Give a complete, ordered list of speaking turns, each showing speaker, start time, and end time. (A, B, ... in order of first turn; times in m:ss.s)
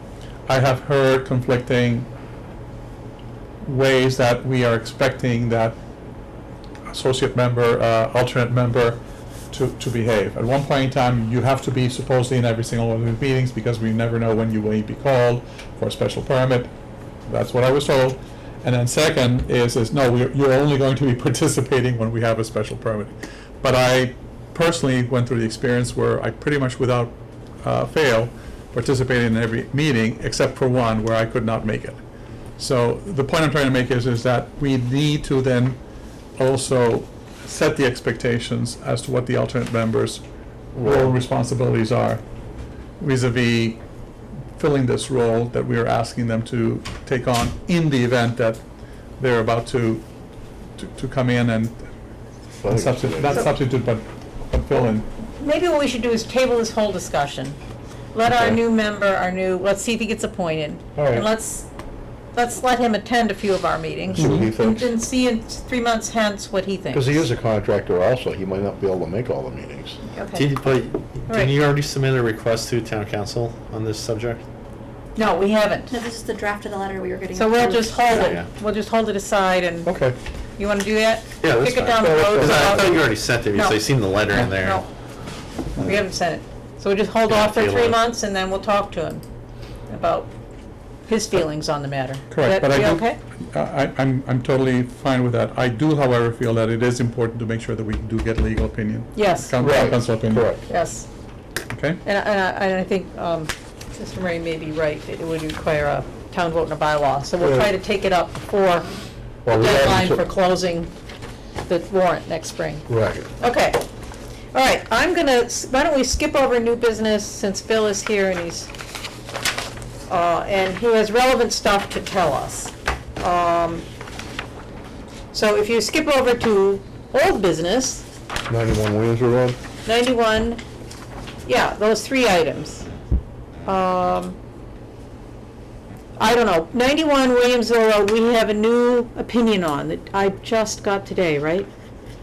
0:00.5-0:02.1 A
0:03.6-0:05.8 A
0:06.9-0:09.0 A
0:09.5-0:16.7 A
0:17.3-0:32.0 A
0:32.6-0:35.8 A
0:36.4-0:40.2 A
0:40.7-0:41.2 B
0:40.8-0:42.2 A
0:43.0-0:43.8 A
0:44.6-0:48.6 A
0:49.2-0:50.0 A
0:50.8-0:51.9 A
0:52.5-0:53.5 B
0:52.7-0:55.1 A
0:55.4-0:57.6 C
0:58.1-1:01.7 C
0:58.3-0:58.6 B
1:01.0-1:01.3 B
1:02.3-1:07.2 C
1:04.1-1:04.9 B
1:06.9-1:10.0 B
1:10.1-1:10.5 C
1:10.3-1:14.4 D
1:11.3-1:11.5 C
1:15.2-1:16.0 C
1:15.9-1:18.3 E
1:17.3-1:19.9 C
1:18.1-1:18.5 D
1:19.8-1:20.1 B
1:20.6-1:24.9 C
1:21.4-1:24.8 D
1:21.4-1:23.0 B
1:25.8-1:29.2 C
1:27.2-1:28.0 D
1:29.9-1:30.3 C
1:31.1-1:33.2 C
1:32.3-1:40.6 A
1:39.1-1:39.9 C
1:39.6-1:40.6 B
1:40.6-1:41.1 C
1:41.7-1:42.0 A
1:42.0-1:48.9 C
1:47.4-1:47.7 B
1:49.4-1:50.2 B
1:49.5-1:50.9 C
1:51.6-1:52.9 C
1:52.9-1:53.3 B
1:53.4-1:53.8 C
1:54.5-1:58.7 C
2:00.1-2:03.8 C
2:05.3-2:08.0 C
2:08.5-2:09.6 B
2:09.8-2:10.6 C
2:11.4-2:12.8 C
2:13.6-2:14.4 C
2:16.2-2:21.7 C